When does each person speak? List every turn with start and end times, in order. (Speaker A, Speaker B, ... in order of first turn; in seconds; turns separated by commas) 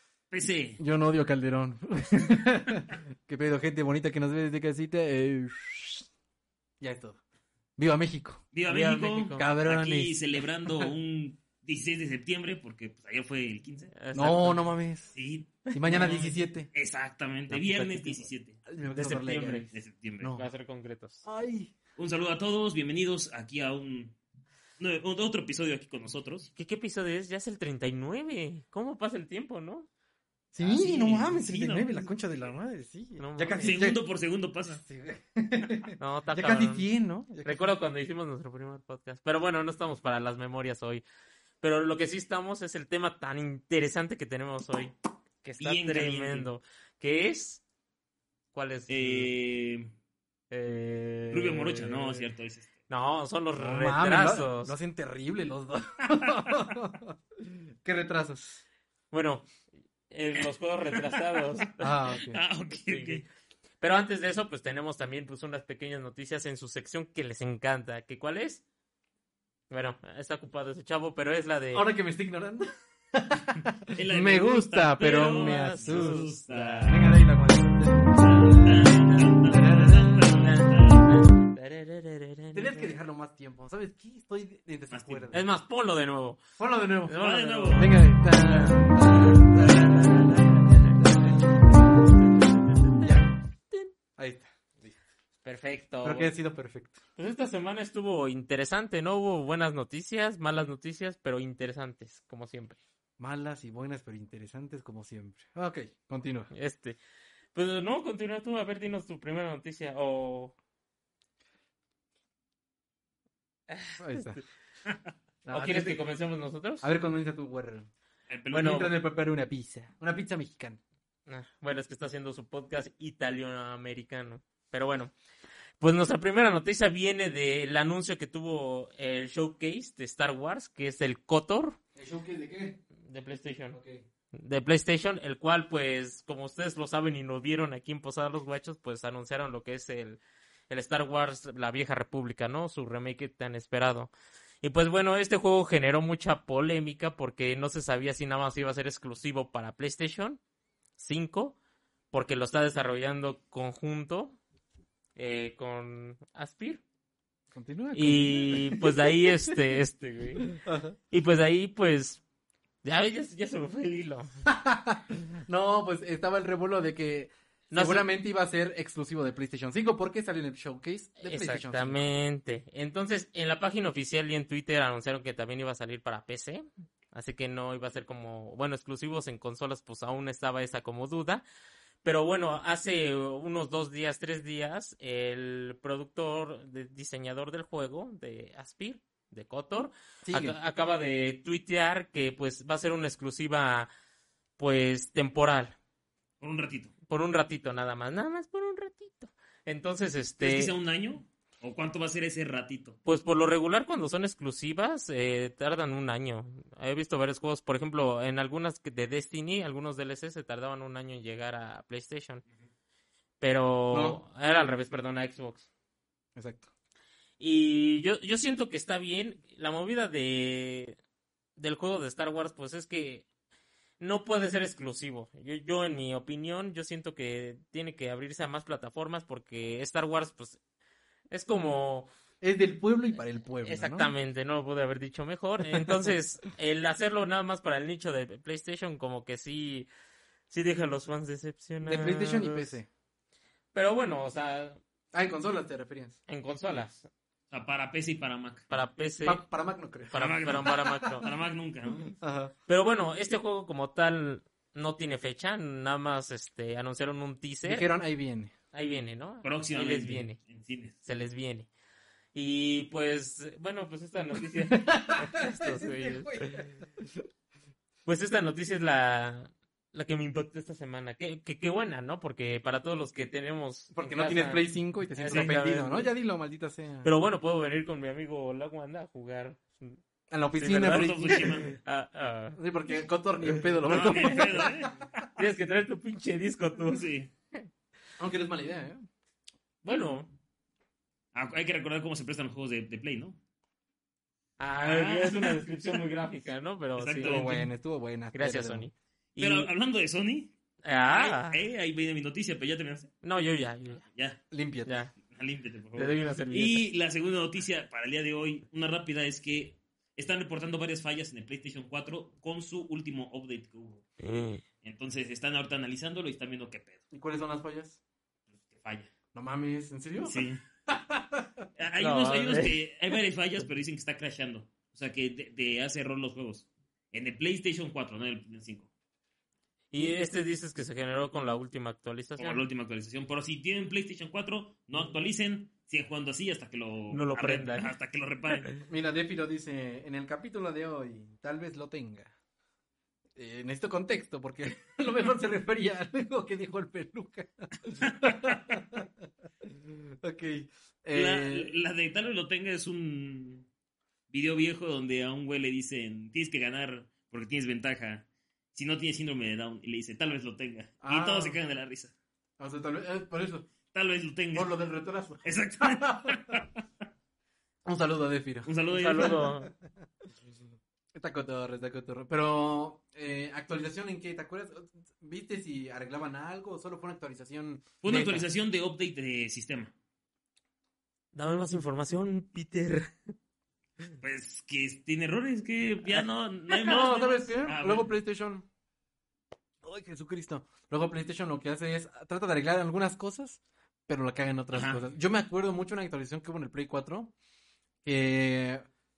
Speaker A: 0.3-0.8, Speaker B: 0.8-6.1, Speaker B: 6.8-7.2, Speaker B: 7.8-10.2, Speaker A: 8.5-13.9, Speaker C: 8.7-9.5, Speaker C: 13.9-14.7, Speaker B: 14.1-15.2, Speaker A: 15.1-16.2, Speaker C: 15.7-16.4, Speaker B: 15.7-16.7, Speaker A: 16.7-18.6, Speaker C: 17.5-18.3, Speaker B: 18.7-20.4, Speaker C: 18.9-19.7, Speaker A: 19.7-20.3, Speaker C: 20.3-21.2, Speaker B: 21.2-21.7, Speaker A: 22.0-24.2, Speaker A: 24.8-26.5, Speaker C: 26.6-29.9, Speaker B: 30.5-34.0, Speaker A: 30.6-32.1, Speaker C: 33.2-33.7, Speaker A: 33.6-34.8, Speaker B: 34.8-37.7, Speaker C: 36.0-36.9, Speaker C: 37.4-41.0, Speaker C: 41.6-47.6, Speaker A: 45.6-46.5, Speaker C: 48.5-49.3, Speaker A: 48.9-49.9, Speaker C: 50.5-52.3, Speaker A: 51.3-52.7, Speaker C: 52.9-54.7, Speaker B: 53.5-58.6, Speaker C: 59.1-59.5, Speaker C: 60.1-61.9, Speaker A: 60.9-61.2, Speaker B: 61.8-62.4, Speaker A: 62.1-63.2, Speaker C: 62.9-63.2, Speaker C: 63.8-68.6, Speaker C: 69.7-71.9, Speaker B: 71.7-80.3, Speaker A: 73.9-77.2, Speaker C: 75.2-77.0, Speaker A: 78.2-81.2, Speaker C: 80.2-82.9, Speaker B: 82.5-85.4, Speaker A: 84.9-85.3, Speaker C: 85.3-86.4, Speaker B: 86.6-87.2, Speaker C: 87.1-91.4, Speaker A: 87.2-87.9, Speaker B: 87.7-91.8, Speaker C: 92.1-93.2, Speaker B: 93.0-93.3, Speaker B: 94.2-94.9, Speaker C: 95.4-96.3, Speaker B: 96.0-97.0, Speaker C: 97.2-102.8, Speaker B: 103.2-106.5, Speaker C: 106.5-107.0, Speaker C: 107.5-110.5, Speaker C: 113.7-114.4, Speaker B: 114.0-114.4, Speaker B: 115.4-116.0, Speaker C: 115.5-116.9, Speaker B: 116.8-117.9, Speaker A: 118.3-118.9, Speaker B: 118.5-120.8, Speaker C: 121.3-125.1, Speaker C: 125.8-131.8, Speaker B: 132.0-132.8, Speaker C: 133.0-133.8, Speaker B: 133.7-134.0, Speaker C: 134.3-144.1, Speaker C: 144.6-150.4, Speaker C: 151.0-151.6, Speaker C: 152.1-154.4, Speaker C: 155.2-156.8, Speaker B: 157.5-159.6, Speaker C: 157.9-160.5, Speaker B: 160.4-161.0, Speaker C: 161.1-162.2, Speaker C: 162.8-164.3, Speaker B: 164.5-172.0, Speaker C: 167.7-168.1, Speaker C: 171.2-181.4, Speaker C: 182.0-193.9, Speaker B: 190.2-190.6, Speaker C: 194.6-195.8, Speaker A: 196.4-196.9, Speaker C: 197.1-200.7, Speaker A: 200.4-203.0, Speaker C: 203.1-212.4, Speaker C: 213.4-215.7, Speaker B: 213.9-214.2, Speaker B: 216.4-216.7, Speaker C: 217.4-221.0, Speaker C: 221.6-223.2, Speaker C: 224.0-230.6, Speaker C: 231.3-232.1, Speaker B: 232.4-234.1, Speaker C: 233.6-239.9, Speaker B: 235.7-236.1, Speaker C: 240.5-242.8, Speaker B: 241.8-242.9, Speaker C: 243.7-244.8, Speaker B: 245.1-246.2, Speaker C: 246.3-247.1, Speaker A: 247.5-248.7, Speaker C: 248.7-249.4, Speaker B: 249.2-251.1, Speaker C: 250.1-251.3, Speaker A: 250.1-252.1, Speaker B: 252.2-252.5, Speaker C: 252.7-257.9, Speaker B: 257.6-258.5, Speaker C: 258.7-260.4, Speaker A: 259.4-261.0, Speaker C: 261.0-261.7, Speaker C: 262.3-266.7, Speaker B: 264.4-267.2, Speaker C: 268.1-274.6, Speaker B: 273.9-277.1, Speaker C: 275.2-276.1, Speaker C: 277.0-280.0, Speaker B: 280.3-281.7, Speaker C: 280.6-282.6, Speaker A: 280.6-281.7, Speaker B: 282.6-284.9, Speaker A: 283.9-284.9, Speaker C: 285.4-287.1, Speaker A: 286.9-287.3, Speaker B: 288.2-289.1, Speaker C: 289.8-290.3, Speaker A: 291.3-293.4, Speaker C: 294.6-297.7, Speaker A: 294.8-296.0, Speaker A: 297.0-297.7, Speaker B: 297.2-298.9, Speaker C: 298.3-299.7, Speaker A: 299.4-300.5, Speaker C: 300.8-301.6, Speaker A: 301.1-303.1, Speaker C: 303.2-304.1, Speaker A: 304.1-304.4, Speaker B: 304.5-304.9, Speaker C: 304.9-305.1, Speaker A: 305.3-314.1, Speaker C: 305.9-306.9, Speaker C: 314.2-314.6, Speaker A: 314.8-317.0, Speaker B: 317.1-318.0, Speaker A: 318.7-319.1, Speaker B: 319.3-321.7, Speaker A: 320.2-320.6, Speaker A: 321.8-328.9, Speaker C: 322.0-322.8, Speaker C: 329.9-332.7, Speaker A: 332.4-338.7, Speaker C: 337.1-337.9, Speaker B: 338.9-342.3, Speaker B: 343.4-349.1, Speaker B: 349.6-351.7, Speaker A: 351.1-353.7, Speaker A: 354.3-362.1, Speaker B: 361.0-361.6, Speaker B: 362.6-363.7, Speaker A: 363.9-364.8, Speaker B: 364.5-366.6, Speaker A: 365.4-366.8, Speaker B: 367.9-369.7, Speaker A: 368.6-369.5, Speaker C: 368.9-369.7, Speaker B: 371.1-378.4, Speaker A: 378.0-379.9, Speaker C: 381.3-383.1, Speaker A: 384.2-388.1, Speaker B: 386.7-388.7, Speaker B: 389.8-397.3, Speaker A: 394.7-395.0, Speaker B: 398.0-398.9